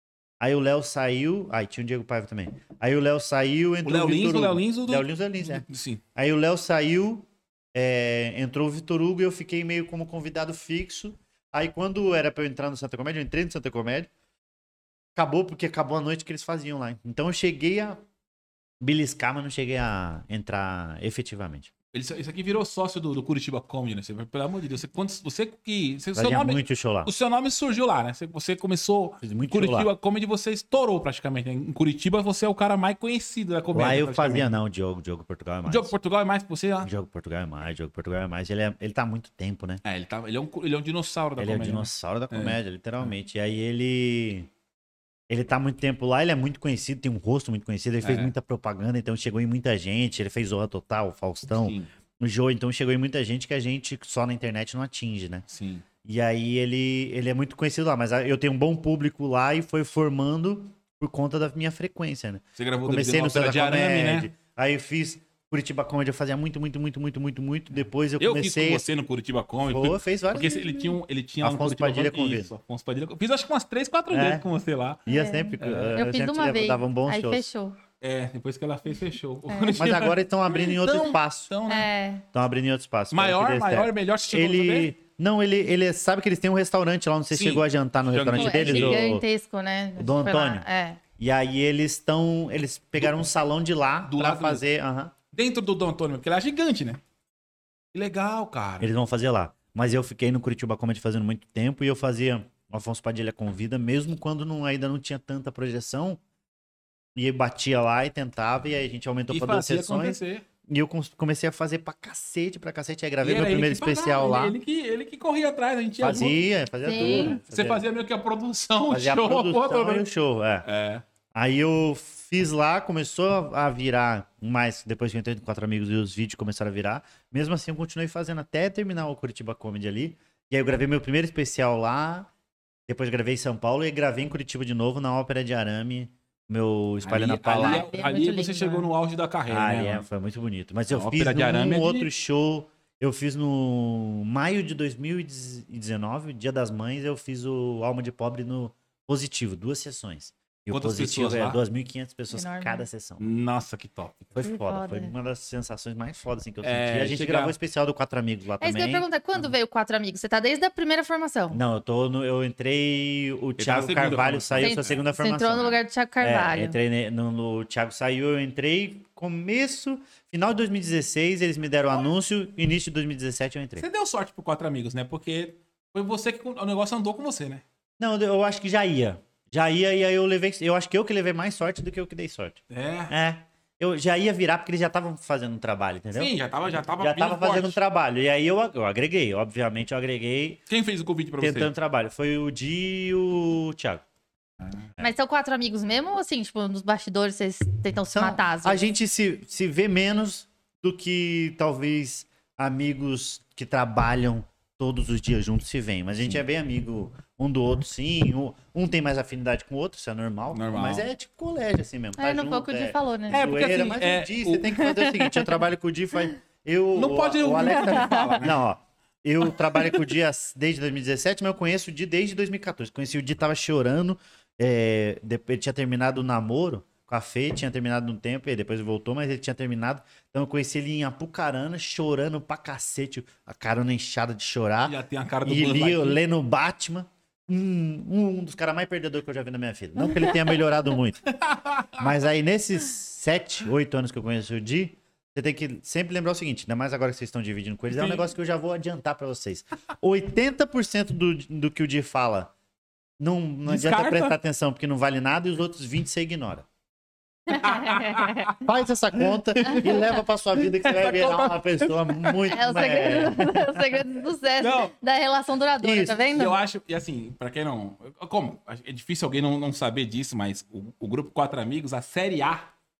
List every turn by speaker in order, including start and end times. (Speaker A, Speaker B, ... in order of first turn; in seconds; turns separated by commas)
Speaker A: 0.4-14.1, Speaker B: 3.8-6.0, Speaker A: 15.1-18.0, Speaker A: 18.8-21.7, Speaker B: 21.9-34.5, Speaker A: 26.1-27.1, Speaker A: 29.2-29.9, Speaker A: 33.7-35.9, Speaker B: 35.7-36.9, Speaker A: 36.8-39.8, Speaker B: 39.8-43.1, Speaker A: 41.4-44.5, Speaker A: 45.3-55.4, Speaker B: 48.0-48.3, Speaker B: 51.5-51.9, Speaker B: 55.5-55.9, Speaker A: 56.0-68.8, Speaker B: 62.5-64.3, Speaker B: 68.2-75.0, Speaker A: 69.6-70.5, Speaker C: 70.4-71.0, Speaker A: 71.4-72.5, Speaker A: 74.1-74.4, Speaker A: 75.0-77.5, Speaker C: 75.1-77.8, Speaker B: 75.6-76.0, Speaker B: 78.0-81.9, Speaker C: 79.5-79.8, Speaker A: 79.8-81.5, Speaker C: 81.7-82.2, Speaker A: 82.3-89.2, Speaker B: 83.1-84.9, Speaker B: 87.3-89.1, Speaker C: 88.3-91.0, Speaker A: 90.0-90.7, Speaker A: 91.2-95.1, Speaker B: 94.1-94.6, Speaker B: 95.3-97.0, Speaker B: 97.9-98.9, Speaker A: 98.8-106.2, Speaker A: 107.1-114.6, Speaker B: 109.3-110.4, Speaker B: 113.2-116.4, Speaker A: 116.0-117.8, Speaker C: 116.8-117.3, Speaker B: 116.9-120.1, Speaker A: 118.9-120.7, Speaker B: 120.6-121.0, Speaker A: 121.3-132.3, Speaker A: 132.9-137.9, Speaker B: 137.0-140.0, Speaker C: 137.5-138.9, Speaker A: 139.5-153.2, Speaker B: 140.9-142.1, Speaker B: 150.7-151.6, Speaker C: 152.3-152.8, Speaker B: 153.2-154.3, Speaker A: 154.3-159.4, Speaker C: 154.4-155.1, Speaker B: 156.6-157.5, Speaker C: 158.6-161.6, Speaker A: 161.5-173.8, Speaker B: 163.6-165.0, Speaker C: 164.6-166.8, Speaker B: 173.8-177.6, Speaker A: 178.0-186.3, Speaker B: 182.7-183.1, Speaker B: 186.1-187.8, Speaker A: 187.0-190.6, Speaker B: 190.7-191.7, Speaker A: 191.4-194.0, Speaker C: 195.0-198.8, Speaker A: 198.1-241.2, Speaker B: 210.5-211.1, Speaker C: 212.2-213.9, Speaker B: 213.3-214.9, Speaker C: 215.1-215.5, Speaker B: 216.9-218.6, Speaker C: 217.8-218.4, Speaker B: 234.8-236.2, Speaker B: 241.3-242.1, Speaker A: 242.0-252.5, Speaker B: 247.9-248.2, Speaker A: 253.2-256.6, Speaker B: 253.7-254.4, Speaker B: 257.5-258.6, Speaker C: 257.5-258.5, Speaker A: 258.6-263.6, Speaker B: 259.5-262.5, Speaker C: 262.5-266.6, Speaker B: 264.6-264.9, Speaker A: 265.8-266.3, Speaker B: 266.3-272.7